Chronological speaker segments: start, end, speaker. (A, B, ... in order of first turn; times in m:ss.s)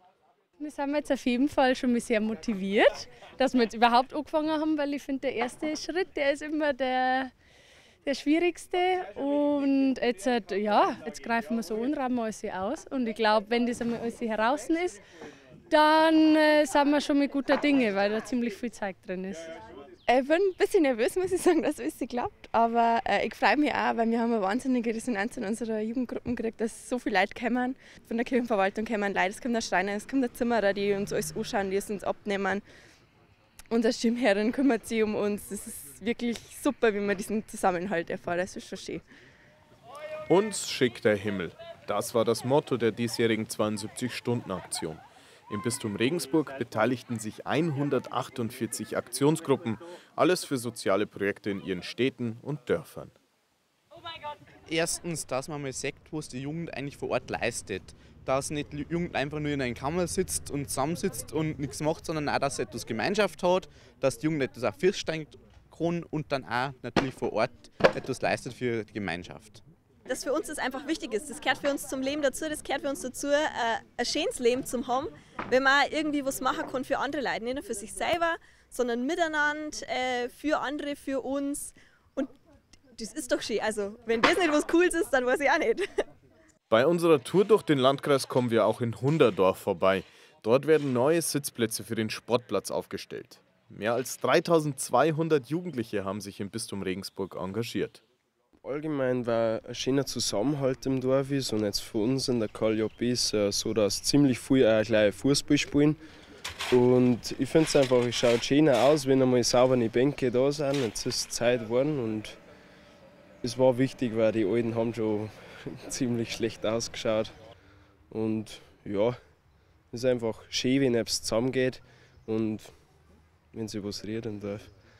0:00.6-0:07.3 A
0:08.1-0:15.0 A
0:15.7-0:19.5 A
0:20.1-0:32.6 B
0:33.7-0:39.0 B
0:40.3-0:53.1 C
0:54.7-1:09.6 D
1:10.1-1:22.3 E
1:23.0-1:25.9 E
1:26.7-1:38.0 C
1:38.6-1:46.0 F
1:46.7-1:52.4 F
1:53.4-1:57.3 F
1:58.1-1:59.2 F
1:59.9-2:02.7 F
2:03.5-2:04.7 F